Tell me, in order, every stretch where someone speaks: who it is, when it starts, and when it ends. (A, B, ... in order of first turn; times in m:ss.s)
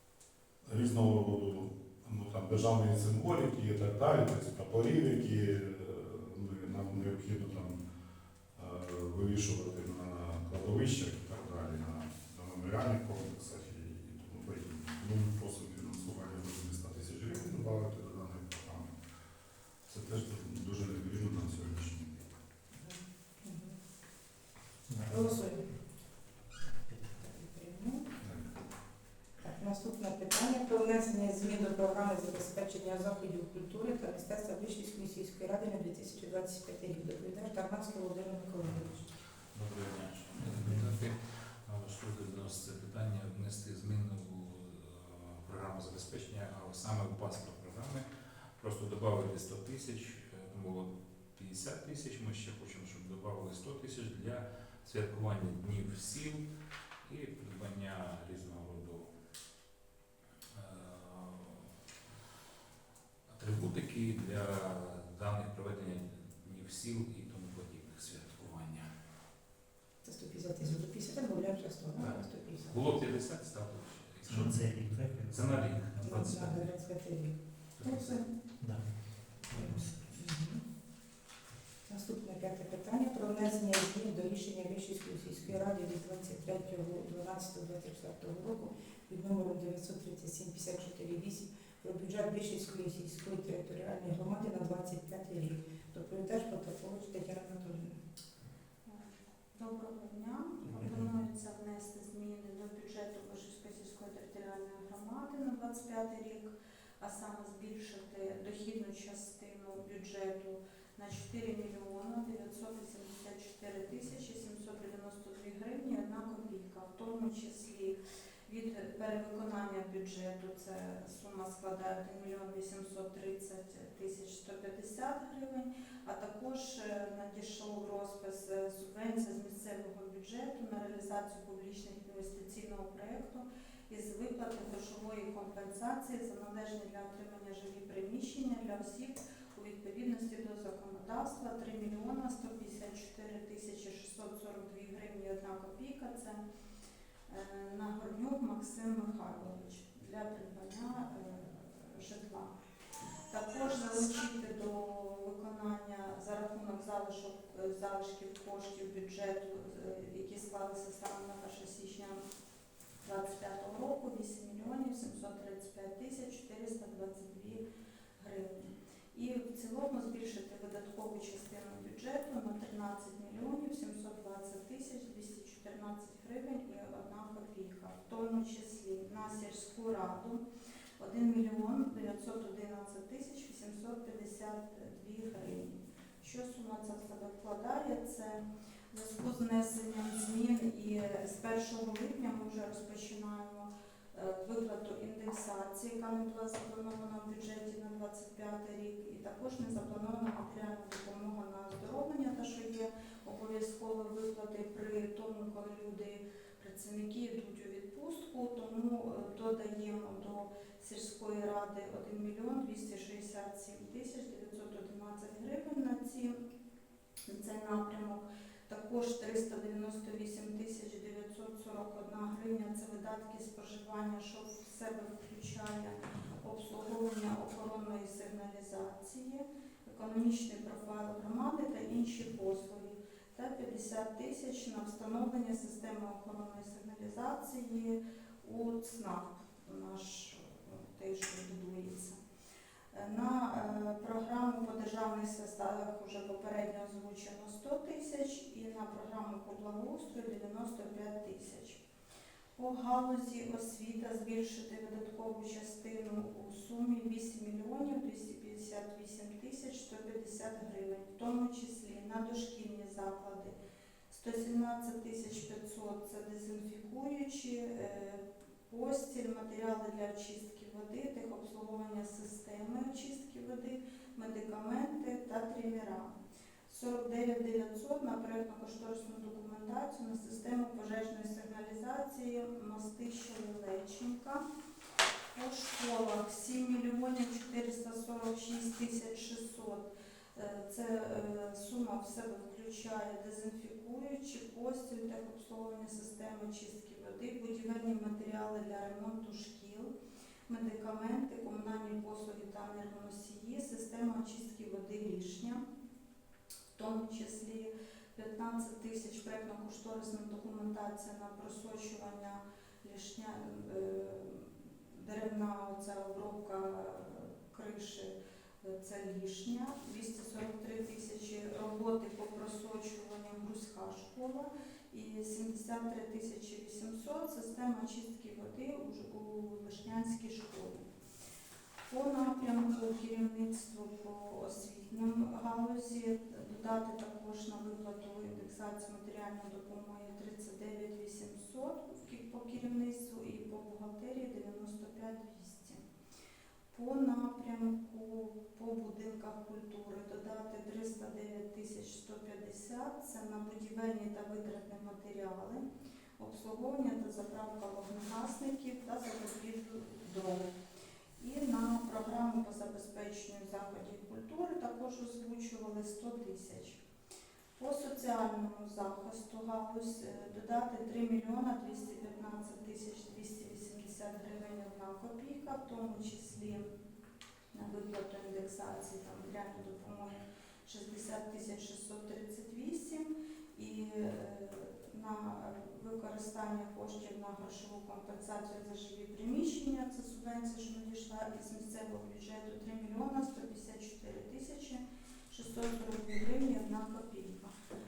0:00.6-0:07.8 A
0:08.5-0:18.9 A
0:19.9-0:22.2 A
0:22.8-0:23.7 B
0:24.9-0:25.3 C
0:25.1-0:25.6 B
0:27.2-0:28.0 B
0:28.2-0:28.6 A
0:29.4-0:39.0 B
0:39.5-0:48.1 D
0:40.3-0:41.0 C
0:48.6-0:56.4 D
0:57.0-0:59.1 D
1:00.5-1:01.7 D
1:03.3-1:08.8 D
1:10.0-1:12.8 B
1:12.7-1:16.8 D
1:14.2-1:16.1 C
1:16.0-1:18.2 B
1:17.8-1:18.2 D
1:18.6-1:20.1 C
1:19.6-1:20.6 B
1:21.9-1:38.0 B
1:38.8-2:26.4 E
1:40.6-1:41.1 C
2:27.3-2:32.5 E
2:33.3-2:42.2 E
2:43.0-2:47.6 E
2:48.2-3:00.4 E
3:01.0-3:36.3 E
3:37.3-4:02.2 E
4:02.9-4:11.8 E
4:12.6-4:23.5 E
4:24.1-4:36.1 E
4:36.7-4:44.4 E
4:45.3-4:59.9 E
5:00.5-5:05.6 E
5:06.7-5:30.8 E
5:31.9-5:45.8 E
5:46.7-5:55.6 E
5:56.2-6:00.5 E
6:01.2-6:06.8 E
6:07.6-6:16.6 E
6:17.5-6:37.5 E